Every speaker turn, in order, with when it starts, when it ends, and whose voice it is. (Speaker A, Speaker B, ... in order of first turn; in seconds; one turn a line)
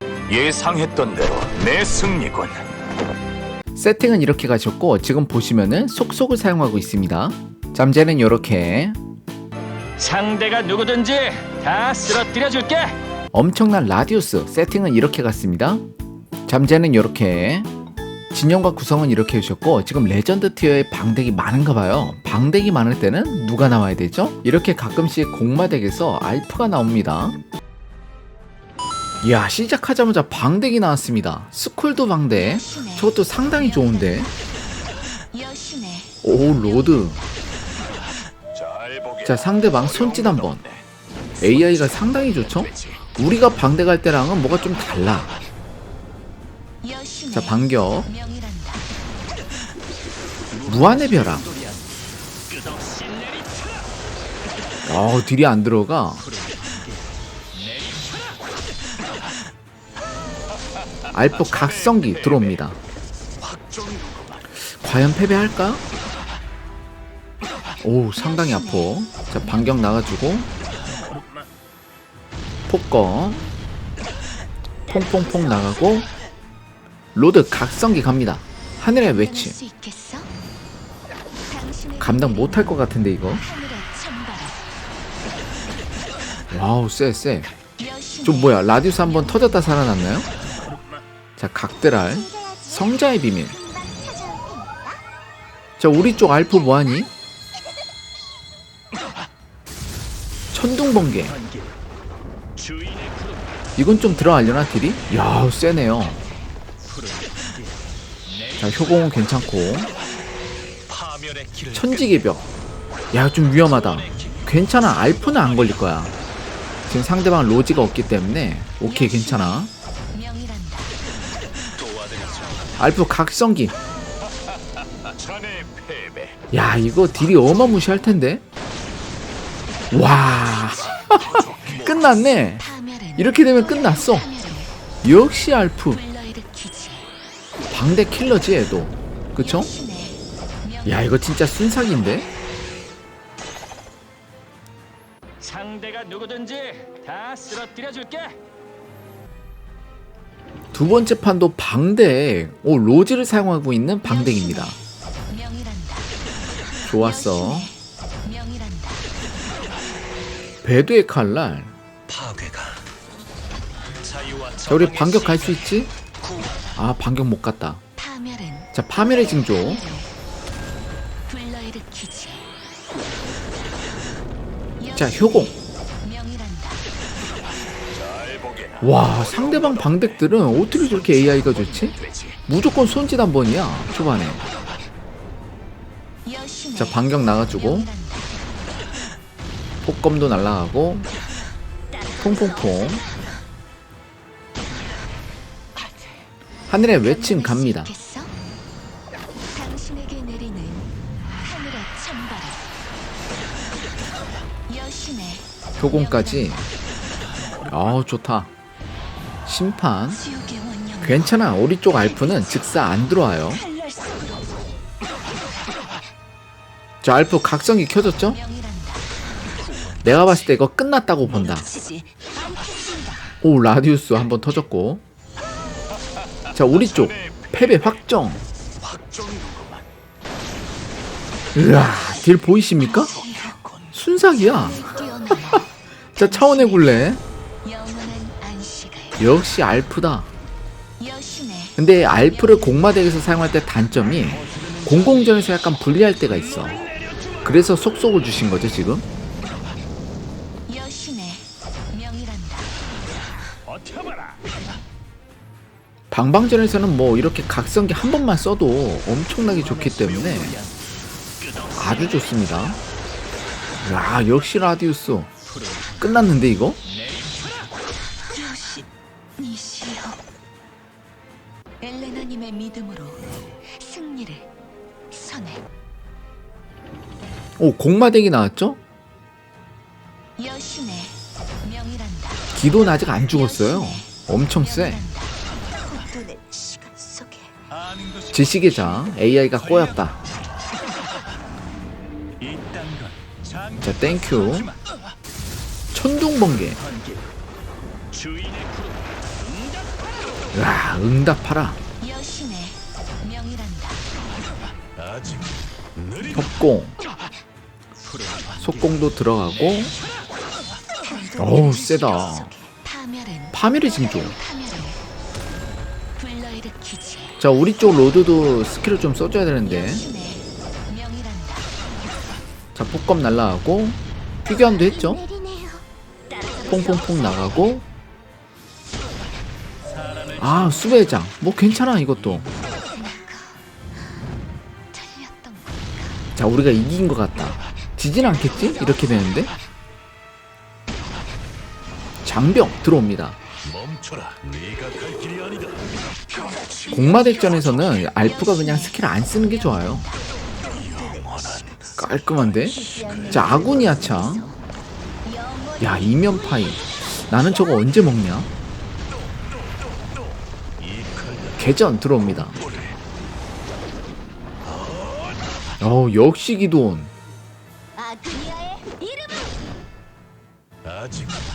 Speaker A: 0.4-2.5
Speaker B: 3.8-9.0
Speaker C: 10.0-13.0
Speaker B: 13.3-15.8
Speaker B: 16.5-17.7
Speaker B: 18.3-27.4
Speaker B: 29.2-34.3
Speaker B: 36.2-37.2
Speaker B: 39.2-40.7
Speaker B: 41.4-45.3
Speaker B: 47.3-48.1
Speaker B: 50.6-51.5
Speaker B: 54.9-56.3
Speaker B: 61.1-62.8
Speaker B: 64.6-65.8
Speaker B: 67.8-70.5
Speaker B: 72.7-73.5
Speaker B: 74.9-76.1
Speaker B: 77.1-79.6
Speaker D: 79.5-80.3
Speaker D: 81.5-82.6
Speaker B: 82.0-83.4
Speaker D: 83.5-84.6
Speaker B: 86.5-87.5
Speaker B: 88.2-90.3
Speaker B: 91.4-93.6
Speaker D: 92.3-92.7
Speaker D: 93.6-95.0
Speaker B: 95.8-97.1
Speaker B: 100.5-101.4
Speaker B: 103.8-106.2
Speaker B: 108.6-109.9
Speaker B: 111.7-112.5
Speaker B: 113.1-116.1
Speaker B: 116.9-119.7
Speaker B: 122.8-123.8
Speaker A: 125.3-126.2
Speaker B: 126.5-128.4
Speaker B: 129.9-134.3
Speaker D: 132.7-134.7
Speaker B: 135.0-136.1
Speaker D: 136.1-137.1
Speaker B: 137.7-139.7
Speaker D: 139.7-140.2
Speaker B: 140.8-142.3
Speaker C: 145.4-148.4
Speaker B: 150.7-154.8
Speaker B: 156.9-157.7
Speaker D: 158.3-158.7
Speaker B: 160.6-161.7
Speaker B: 164.6-165.9
Speaker B: 166.8-167.8
Speaker D: 168.0-170.1
Speaker B: 168.7-169.9
Speaker D: 171.3-172.4
Speaker B: 174.9-175.6
Speaker D: 176.1-176.4
Speaker B: 178.8-184.4
Speaker B: 186.8-187.9
Speaker B: 189.8-191.1
Speaker D: 191.9-193.0
Speaker B: 192.2-193.1
Speaker B: 196.7-197.9
Speaker D: 197.3-198.3
Speaker D: 199.5-200.9
Speaker D: 201.4-202.6
Speaker D: 204.7-205.4
Speaker B: 205.8-206.7
Speaker B: 207.6-208.5
Speaker B: 209.4-210.2
Speaker D: 210.2-211.2
Speaker B: 211.0-213.6
Speaker D: 213.7-214.4
Speaker B: 217.0-218.4
Speaker B: 220.0-221.7
Speaker D: 221.4-223.3
Speaker B: 223.4-225.0
Speaker B: 226.5-228.4
Speaker B: 231.5-233.3
Speaker D: 232.9-233.7
Speaker B: 233.9-235.6
Speaker D: 234.8-235.7
Speaker B: 236.1-237.2
Speaker D: 237.6-239.2
Speaker B: 239.2-240.3
Speaker D: 241.3-241.7
Speaker B: 241.8-246.9
Speaker B: 247.4-249.1
Speaker B: 256.1-260.6
Speaker B: 261.8-262.8
Speaker B: 263.8-265.3
Speaker B: 266.0-266.8
Speaker D: 268.3-268.9
Speaker D: 269.4-270.2
Speaker D: 271.8-274.5
Speaker D: 275.1-275.6
Speaker B: 277.6-278.8
Speaker D: 280.4-281.1
Speaker D: 281.6-282.0
Speaker B: 282.5-285.1
Speaker D: 285.7-287.5
Speaker B: 288.2-290.2
Speaker B: 293.7-294.8
Speaker B: 295.9-296.8
Speaker B: 300.5-301.8
Speaker D: 302.1-302.7
Speaker D: 303.3-303.7
Speaker B: 306.3-307.0
Speaker B: 308.6-309.9
Speaker D: 311.0-313.4
Speaker B: 311.4-312.5
Speaker B: 313.5-314.4
Speaker D: 314.4-314.9
Speaker D: 316.2-317.3
Speaker B: 317.4-320.1
Speaker D: 320.1-320.4
Speaker B: 322.8-325.2
Speaker D: 325.0-326.8
Speaker B: 326.7-327.8
Speaker B: 330.3-332.5
Speaker D: 332.6-333.6
Speaker D: 334.9-336.3
Speaker B: 336.4-339.5
Speaker B: 342.2-343.4
Speaker A: 344.1-345.5
Speaker D: 346.3-347.0
Speaker B: 346.9-350.1
Speaker D: 350.7-352.0
Speaker B: 352.0-354.5
Speaker D: 352.7-354.5
Speaker D: 355.2-356.1
Speaker B: 355.8-358.5
Speaker B: 361.5-362.6
Speaker B: 365.8-367.1
Speaker D: 368.0-369.5